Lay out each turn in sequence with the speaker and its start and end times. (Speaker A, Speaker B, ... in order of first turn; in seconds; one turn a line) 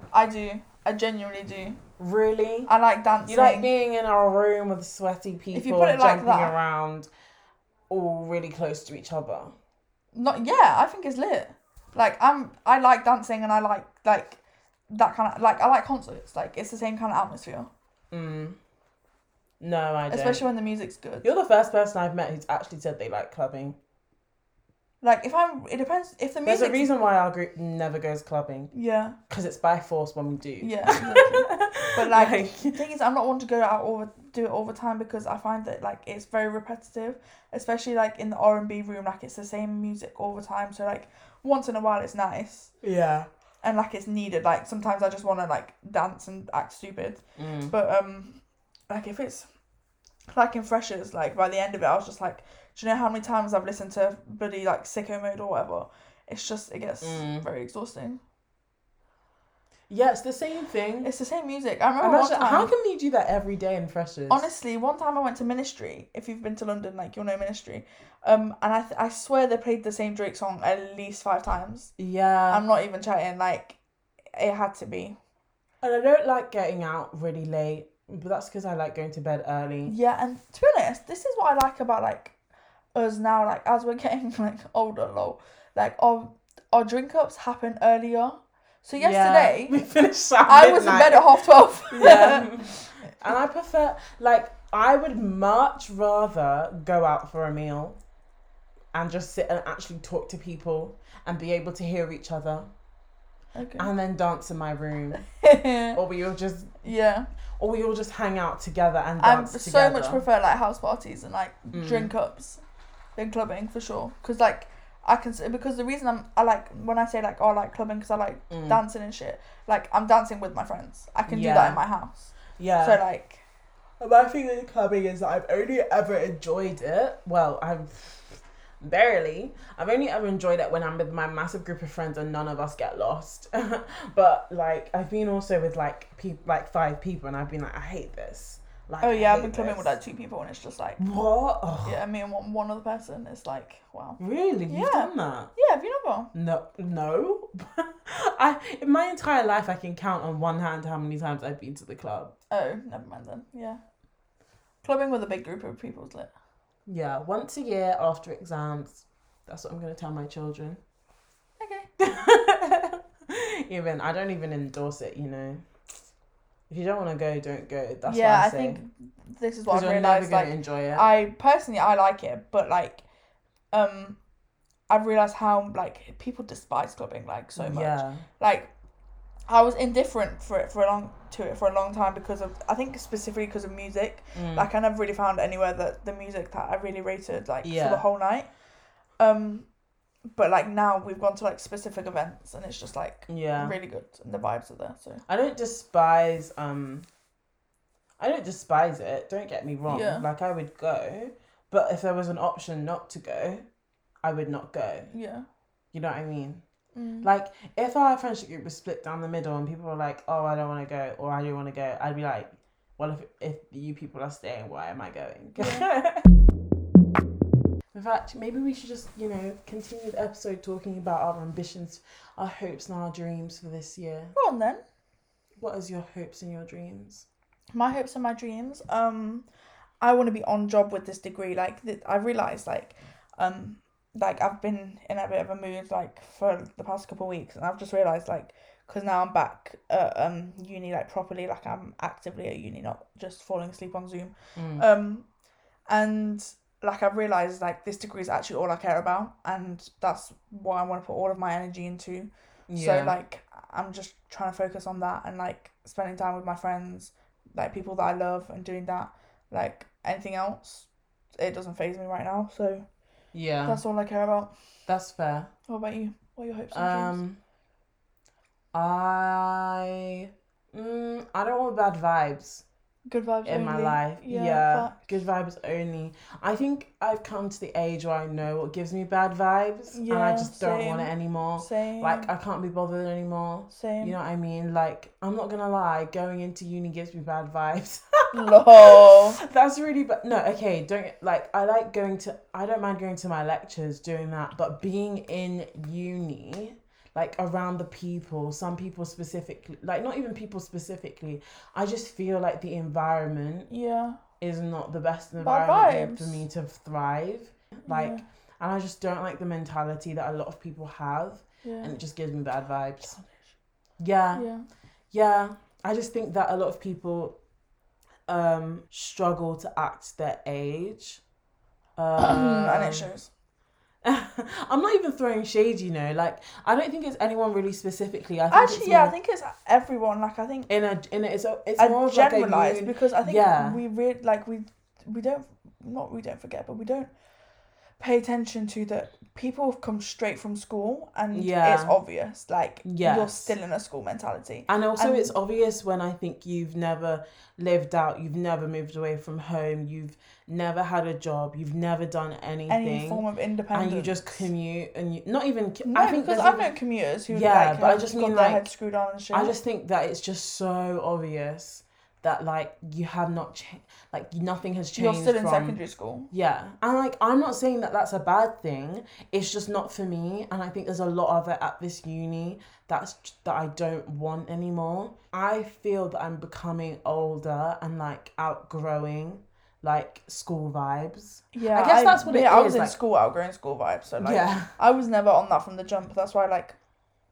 Speaker A: 0.1-1.8
Speaker B: 2.0-2.7
Speaker A: 2.7-3.7
Speaker B: 3.2-7.1
Speaker A: 5.5-6.5
Speaker B: 7.9-9.5
Speaker A: 10.1-17.7
Speaker B: 18.1-18.6
Speaker B: 19.6-20.5
Speaker A: 20.1-21.3
Speaker B: 21.2-23.8
Speaker A: 25.0-26.9
Speaker B: 26.4-28.7
Speaker A: 28.7-29.2
Speaker B: 29.3-32.8
Speaker A: 30.6-42.7
Speaker B: 42.8-43.3
Speaker A: 43.6-49.5
Speaker B: 47.4-47.7
Speaker A: 50.3-58.2
Speaker B: 57.0-57.5
Speaker B: 59.9-61.1
Speaker A: 61.0-62.7
Speaker B: 62.0-64.5
Speaker A: 64.3-71.9
Speaker B: 72.0-72.6
Speaker A: 72.5-73.8
Speaker A: 74.3-75.2
Speaker B: 75.8-79.9
Speaker A: 79.8-82.3
Speaker A: 82.9-89.8
Speaker B: 89.0-98.0
Speaker A: 90.4-92.9
Speaker B: 98.9-102.7
Speaker A: 103.5-103.9
Speaker B: 103.8-105.3
Speaker A: 105.4-106.0
Speaker B: 105.9-106.8
Speaker A: 106.8-107.3
Speaker B: 107.6-110.2
Speaker A: 109.2-112.6
Speaker B: 111.7-112.1
Speaker A: 113.2-123.4
Speaker B: 118.5-118.8
Speaker B: 121.3-121.8
Speaker B: 122.6-123.0
Speaker B: 124.0-139.9
Speaker A: 139.0-141.0
Speaker B: 141.0-142.0
Speaker A: 141.8-146.3
Speaker B: 144.2-145.5
Speaker B: 146.3-152.3
Speaker A: 152.5-153.8
Speaker A: 154.8-156.3
Speaker B: 156.8-160.8
Speaker A: 161.6-161.9
Speaker B: 162.0-165.7
Speaker B: 166.7-168.8
Speaker A: 168.1-173.0
Speaker B: 169.7-171.1
Speaker A: 173.7-174.2
Speaker A: 174.9-178.7
Speaker B: 177.6-178.2
Speaker A: 179.5-188.5
Speaker B: 184.3-184.7
Speaker B: 187.6-188.0
Speaker A: 189.2-189.7
Speaker A: 190.3-195.2
Speaker B: 193.3-193.8
Speaker B: 195.3-197.1
Speaker B: 198.2-203.7
Speaker A: 199.9-200.2
Speaker B: 204.2-205.1
Speaker A: 205.1-205.4
Speaker B: 205.9-206.6
Speaker A: 206.9-207.3
Speaker B: 207.2-216.2
Speaker A: 215.6-215.9
Speaker B: 217.9-224.3
Speaker A: 224.3-224.8
Speaker B: 225.6-227.2
Speaker A: 227.7-229.4
Speaker A: 230.0-245.3
Speaker B: 244.6-244.8
Speaker A: 245.9-262.8
Speaker B: 252.7-253.2
Speaker B: 263.3-263.8
Speaker A: 263.6-264.5
Speaker B: 264.9-265.5
Speaker A: 265.7-267.2
Speaker B: 266.7-267.4
Speaker B: 268.7-272.6
Speaker A: 273.1-275.0
Speaker B: 273.4-303.7
Speaker A: 279.9-282.3
Speaker A: 283.7-284.1
Speaker A: 288.3-289.4
Speaker A: 303.7-304.2
Speaker B: 304.4-313.2
Speaker A: 305.4-306.4
Speaker A: 307.9-308.2
Speaker A: 311.6-311.9
Speaker B: 314.0-314.5
Speaker A: 314.3-314.6
Speaker B: 315.1-317.4
Speaker B: 318.3-321.2
Speaker B: 322.0-323.1
Speaker A: 322.2-323.3
Speaker B: 324.0-329.1
Speaker A: 328.5-330.7
Speaker B: 330.7-333.8
Speaker A: 331.8-337.1
Speaker A: 338.0-345.3
Speaker B: 341.3-342.0
Speaker B: 342.8-343.5
Speaker B: 344.7-356.7
Speaker A: 352.7-354.4
Speaker A: 355.8-359.6
Speaker B: 357.3-358.7
Speaker B: 359.3-365.8
Speaker A: 364.9-366.3
Speaker B: 366.3-383.0
Speaker A: 381.5-386.8
Speaker B: 384.2-384.7